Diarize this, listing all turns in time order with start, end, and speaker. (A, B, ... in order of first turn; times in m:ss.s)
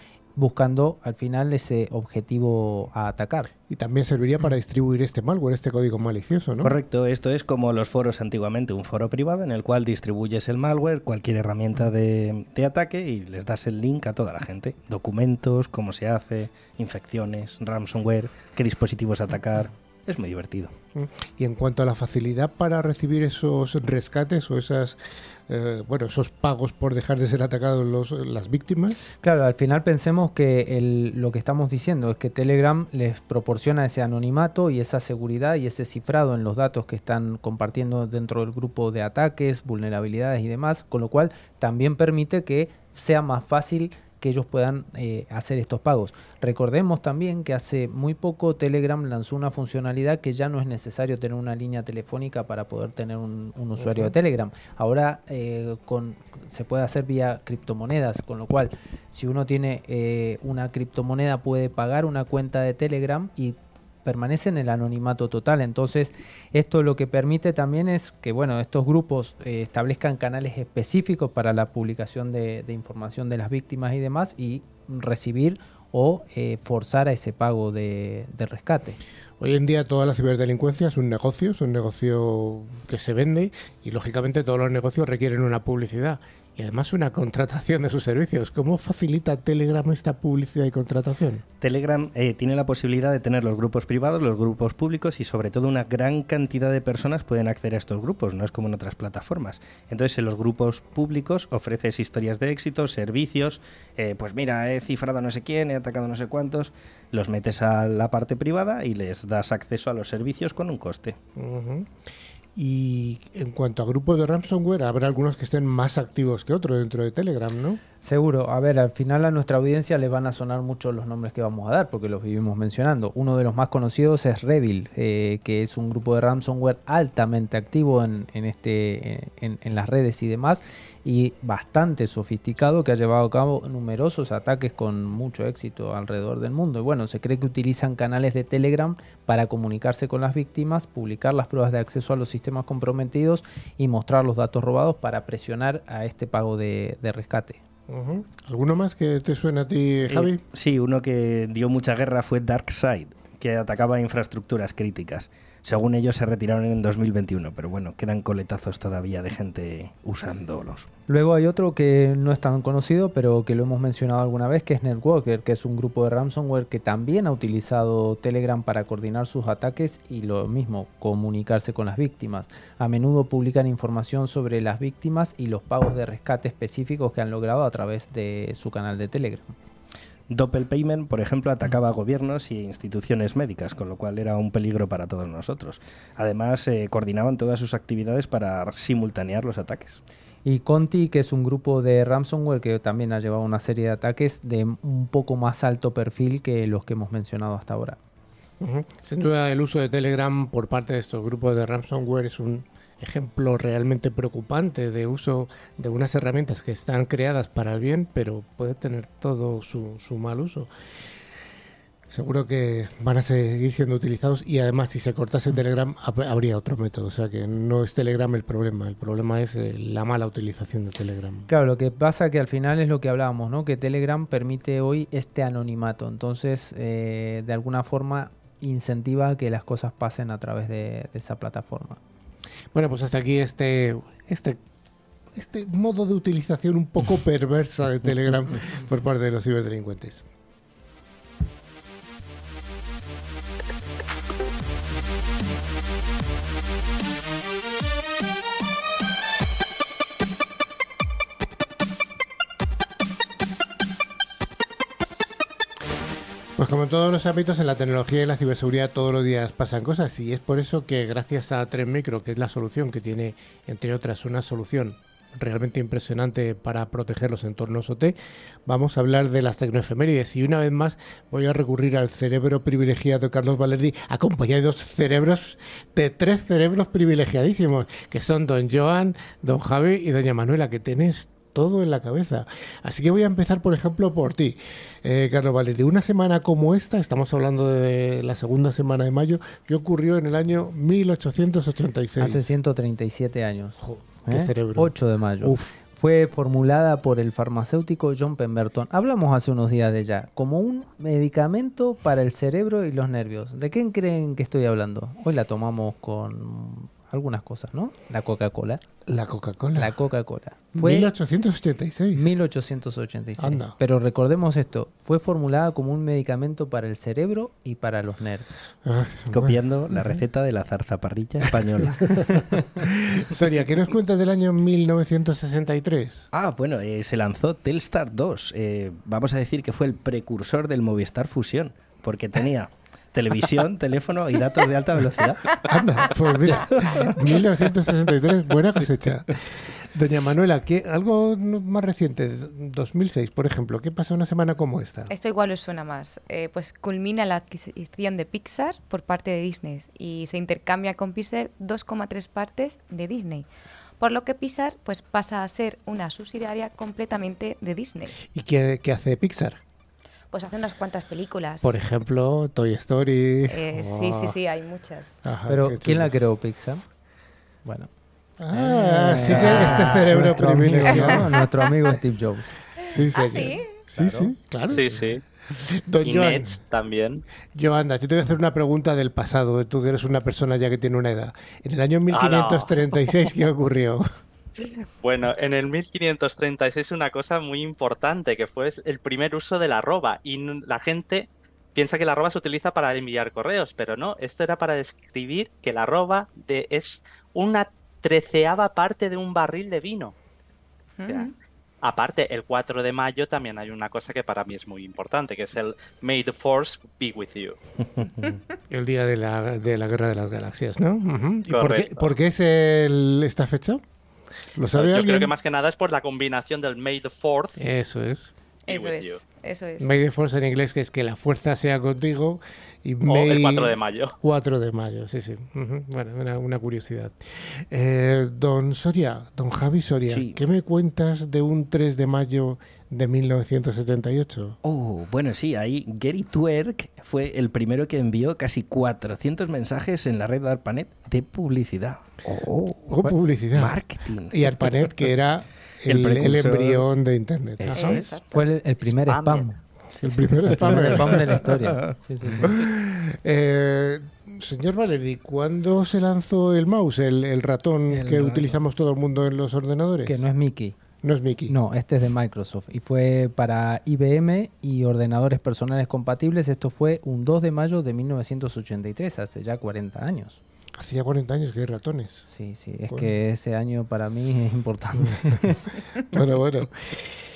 0:00.4-0:03.5 A
0:03.7-0:06.7 B
0:06.6-0:20.7 C
0:21.0-0:29.0 B
0:29.2-1:19.0 A
0:53.8-0:54.1 B
1:19.4-1:31.4 B
1:31.6-1:51.2 C
1:51.4-1:51.9 B
1:52.6-1:57.8 B
1:58.0-2:27.6 A
2:27.9-2:30.4 B
2:30.1-2:40.9 C
2:41.1-2:59.6 A
3:00.3-3:10.0 C
3:10.4-3:18.0 A
3:18.6-3:30.7 B
3:32.1-3:41.5 B
3:41.5-3:52.0 A
3:52.7-3:54.6 B
3:55.4-4:00.3 B
4:16.6-4:52.6 B
4:52.2-5:08.8 A
4:53.8-4:55.7 B
5:09.1-5:10.0 B
5:09.8-5:11.1 A
5:10.8-5:12.3 B
5:12.2-5:18.5 A
5:13.4-5:13.8 B
5:18.8-5:20.2 B
5:19.3-5:22.7 C
5:22.1-5:26.3 B
5:26.3-5:35.4 C
5:35.7-5:45.1 B
5:36.5-5:37.4 C
5:45.1-5:53.5 D
5:54.0-5:58.2 D
5:58.3-5:59.6 B
6:00.3-6:01.8 D
6:01.6-6:04.4 B
6:03.5-6:05.2 D
6:05.2-6:06.1 B
6:05.5-6:06.9 A
6:07.6-6:07.9 A
6:08.4-6:11.3 B
6:08.5-6:12.6 A
6:09.3-6:09.9 D
6:10.9-6:11.3 D
6:12.9-6:16.6 B
6:13.1-6:13.7 D
6:14.7-6:15.2 E
6:16.0-6:17.2 E
6:17.5-6:24.0 B
6:22.1-6:23.3 E
6:24.6-6:40.2 E
6:41.0-6:41.3 D
6:41.8-6:47.6 E
6:48.7-6:53.8 B
6:51.5-6:52.1 E
6:54.6-6:55.3 B
6:54.7-6:57.6 E
6:57.6-6:58.3 B
6:58.7-6:59.9 D
6:58.7-6:59.2 E
6:59.8-7:14.6 B
7:03.1-7:04.2 E
7:10.1-7:10.4 C
7:14.6-7:22.5 C
7:22.5-7:28.0 B
7:23.5-7:24.9 C
7:25.9-7:26.8 C
7:27.6-7:28.2 C
7:27.7-7:28.4 D
7:28.3-7:29.6 A
7:29.1-7:29.5 E
7:29.9-7:31.3 B
7:30.5-7:32.5 A
7:30.6-7:32.5 C
7:32.4-7:40.3 B
7:37.9-7:38.6 A
7:40.1-7:40.8 A
7:41.0-7:41.6 B
7:41.5-7:50.4 A
7:50.8-7:52.3 B
7:52.3-7:55.6 A
7:56.1-7:57.2 B